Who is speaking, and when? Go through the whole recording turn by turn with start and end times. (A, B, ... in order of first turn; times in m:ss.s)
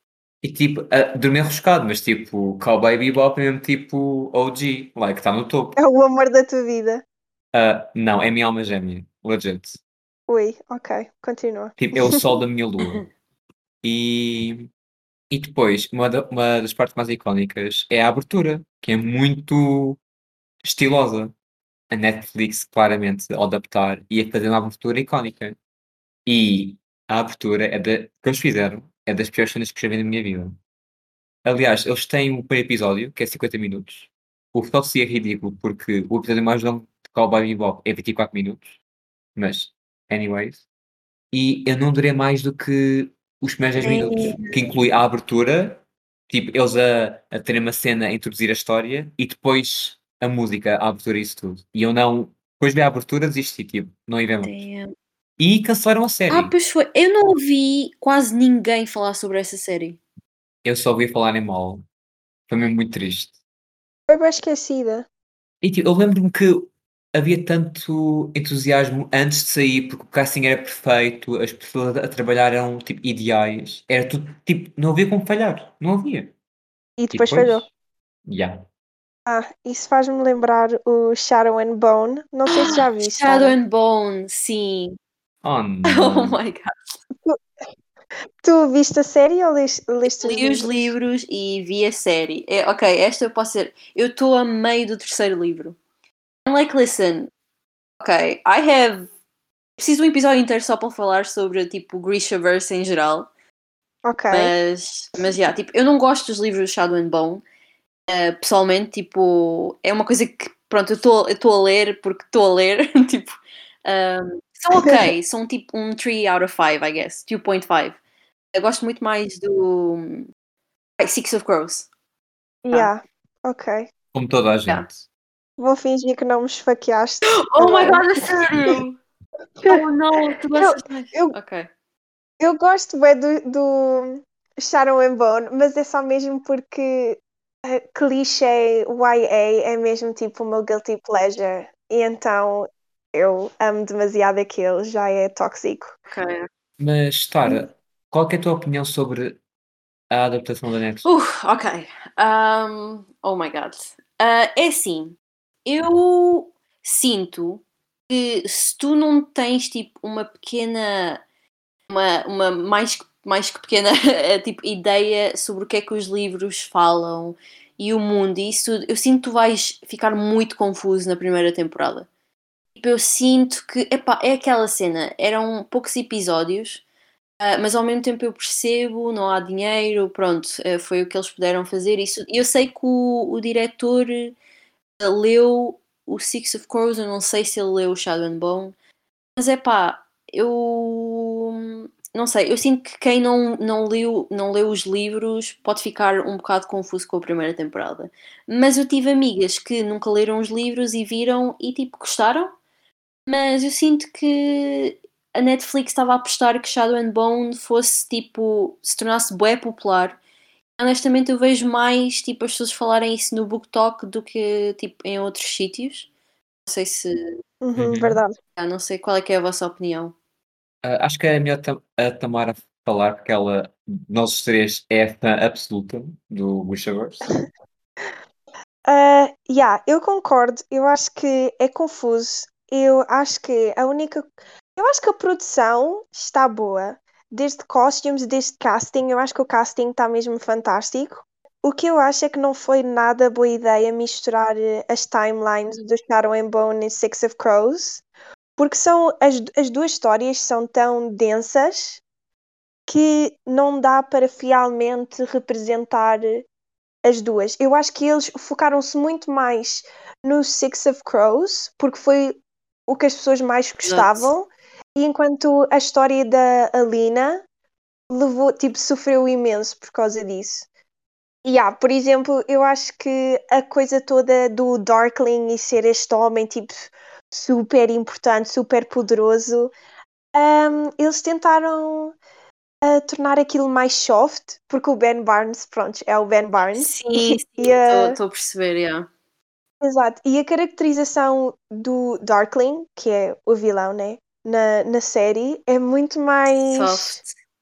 0:00.4-0:05.8 A
0:05.8-0:07.0 B
0:07.5-0:09.8 A
0:10.3-0:12.2 B
0:11.8-0:13.0 A
0:13.8-0:14.7 A
0:15.3-0:20.0 A
0:20.6-0:21.3 A
0:21.9-0:25.6 A
0:26.2-0:30.6 A
0:31.4-0:38.8 A
0:39.4-0:40.6 A
0:41.3-0:54.6 A
0:43.8-0:44.6 C
0:54.4-0:54.9 C
0:55.4-0:56.5 A
0:56.3-1:00.0 C
1:00.6-1:01.8 A
1:02.5-1:03.3 A
1:04.1-1:05.0 B
1:05.6-1:16.3 A
1:17.0-1:17.7 B
1:17.1-1:17.7 A
1:18.2-1:18.6 A
1:19.3-1:23.6 B
1:22.5-1:25.0 C
1:25.4-1:26.4 A
1:25.8-1:26.9 C
1:28.4-1:30.9 B
1:30.0-1:35.8 C
1:36.4-1:37.3 C
1:38.0-1:39.1 C
1:39.8-1:43.3 C
1:44.0-1:44.5 B
1:44.3-1:47.4 C
1:48.1-1:58.0 C
1:54.8-1:55.1 B
1:58.5-2:00.3 C
2:01.0-2:01.9 C
2:02.6-2:03.9 B
2:04.1-2:05.0 A
2:05.6-2:08.8 B
2:07.3-2:08.9 C
2:09.6-2:11.3 B
2:09.7-2:11.7 C
2:12.4-2:25.9 B
2:26.1-2:26.5 C
2:26.8-2:29.4 A
2:30.1-2:31.1 A
2:31.0-2:41.2 C
2:41.9-2:52.1 C
2:52.8-2:56.8 C
2:57.4-3:04.3 C
3:05.0-3:08.7 C
3:09.4-3:22.5 C
3:23.3-3:30.2 C
3:30.8-3:36.1 C
3:36.6-3:37.4 C
3:37.6-3:38.3 B
3:37.8-3:38.2 A
3:38.6-3:40.1 C
3:40.8-3:47.3 A
3:48.8-4:08.0 B
4:08.6-4:12.0 B
4:12.9-4:16.5 B
4:17.0-4:27.4 B
4:23.8-4:24.3 C
4:28.1-4:30.7 B
4:31.4-4:39.7 B
4:40.3-4:42.2 B
4:42.8-4:48.2 B
4:46.7-4:49.1 C
4:49.8-4:57.2 B
4:56.7-4:57.3 C